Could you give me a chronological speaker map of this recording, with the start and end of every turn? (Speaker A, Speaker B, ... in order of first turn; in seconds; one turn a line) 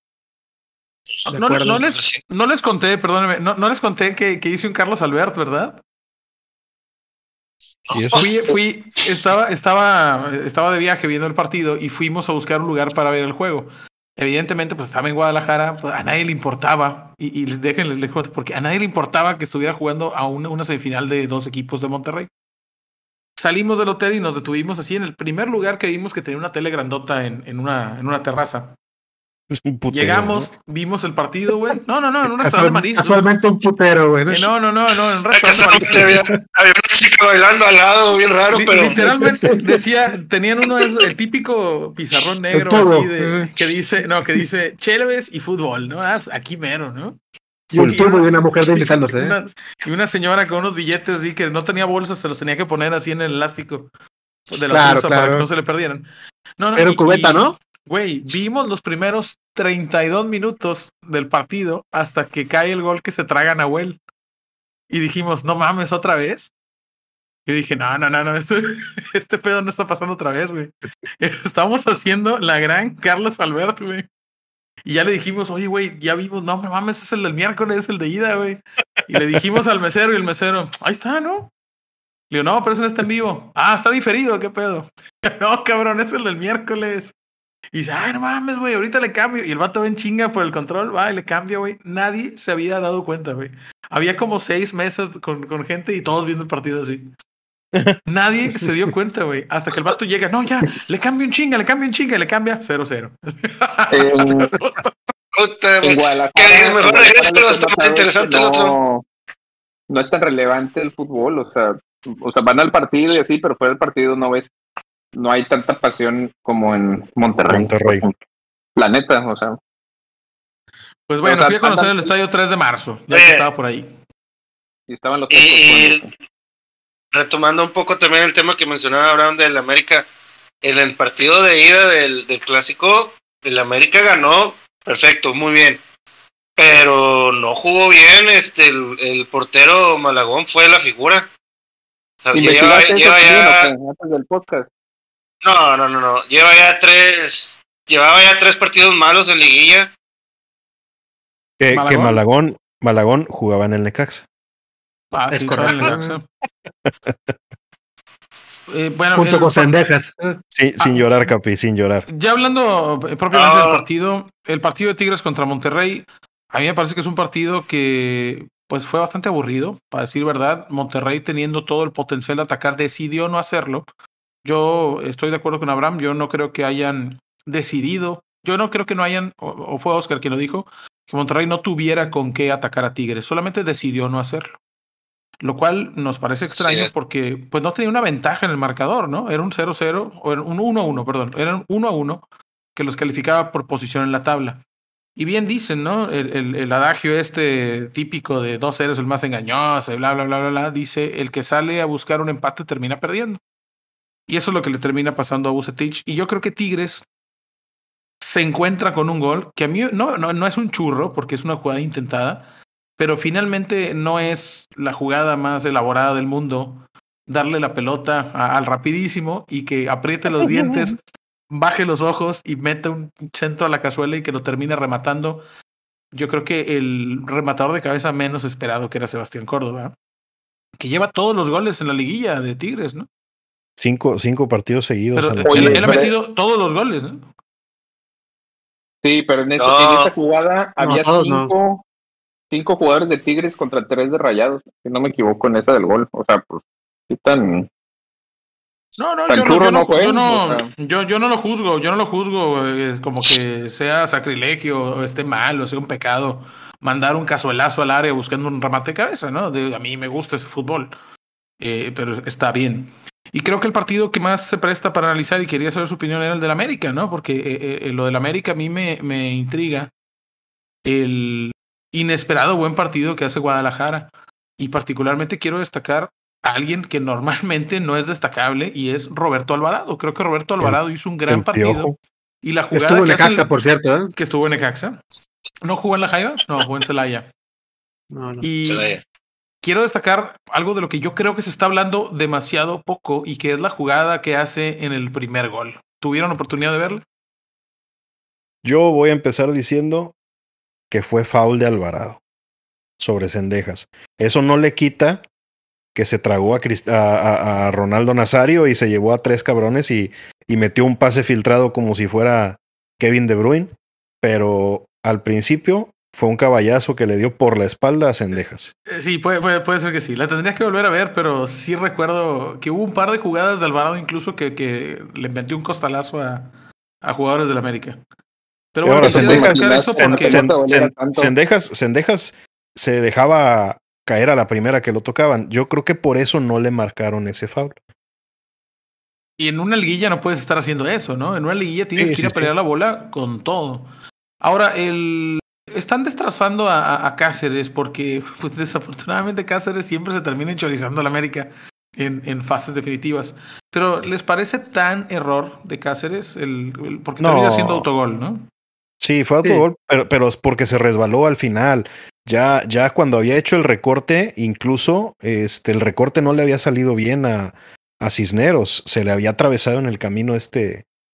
Speaker A: 1.2-5.8
Speaker B: 1.3-1.8
Speaker C: 1.7-2.2
Speaker C: 7.9-8.2
Speaker D: 7.9-8.2
Speaker A: 8.1-22.3
Speaker A: 23.4-28.8
Speaker D: 29.5-30.5
Speaker A: 29.9-33.3
Speaker B: 32.4-34.5
Speaker A: 34.3-36.4
Speaker C: 35.3-39.0
Speaker A: 38.5-47.2
Speaker B: 38.9-39.8
Speaker B: 42.5-43.5
Speaker B: 47.7-49.3
Speaker D: 47.7-48.0
Speaker A: 47.9-53.9
Speaker A: 54.5-56.1
Speaker B: 54.7-55.5
Speaker A: 56.6-64.0
Speaker B: 56.8-57.5
Speaker A: 64.9-66.5
Speaker A: 67.5-74.0
Speaker A: 74.8-81.5
Speaker A: 82.3-87.1
Speaker A: 87.7-97.1
Speaker A: 98.0-104.9
Speaker E: 103.9-104.5
Speaker C: 105.4-108.7
Speaker E: 105.8-109.0
Speaker E: 109.9-114.5
Speaker E: 115.1-118.2
Speaker D: 117.5-118.0
Speaker E: 118.8-119.6
Speaker A: 121.1-123.9
Speaker E: 121.2-122.1
Speaker C: 123.1-123.4
Speaker E: 124.9-126.1
Speaker C: 125.3-126.0
Speaker C: 127.1-130.1
Speaker C: 130.6-135.8
Speaker C: 136.6-141.3
Speaker C: 142.2-143.7
Speaker E: 142.3-144.7
Speaker C: 145.4-149.9
Speaker D: 151.6-154.2
Speaker A: 151.7-152.2
Speaker A: 155.1-156.2
Speaker B: 155.3-156.2
Speaker D: 157.1-157.3
Speaker A: 158.7-159.8
Speaker B: 159.1-160.4
Speaker D: 160.5-162.1
Speaker A: 160.8-161.1
Speaker A: 162.1-173.8
Speaker C: 163.3-163.8
Speaker A: 174.4-184.6
Speaker A: 185.4-194.6
Speaker C: 186.6-186.9
Speaker A: 195.2-203.4
Speaker A: 204.3-207.0
Speaker A: 208.2-212.5
Speaker A: 213.0-221.0
Speaker D: 220.4-220.8
Speaker A: 221.5-225.4
Speaker A: 226.1-229.9
Speaker A: 230.8-233.1
Speaker D: 233.8-236.0
Speaker A: 235.1-237.3
Speaker E: 235.4-236.1
Speaker E: 239.0-241.8
Speaker C: 239.6-240.1
Speaker B: 240.8-241.5
Speaker E: 242.5-247.7
Speaker A: 249.0-260.9
Speaker E: 249.3-250.7
Speaker A: 261.6-269.9
Speaker A: 270.8-283.5
Speaker D: 280.6-282.0
Speaker B: 282.7-284.1
Speaker A: 284.1-285.0
Speaker A: 285.6-287.3
Speaker B: 288.1-288.4
Speaker A: 288.4-288.9
Speaker C: 288.6-289.0
Speaker A: 289.6-297.0
Speaker D: 298.6-300.1
Speaker D: 300.9-302.2
Speaker D: 303.0-305.2
Speaker D: 305.9-318.7
Speaker A: 318.9-326.5
Speaker A: 327.0-328.0
Speaker A: 328.7-330.4
Speaker D: 328.8-337.8
Speaker E: 329.0-331.3
Speaker A: 339.4-358.5
Speaker D: 342.0-342.5
Speaker D: 357.2-357.9
Speaker D: 359.0-370.8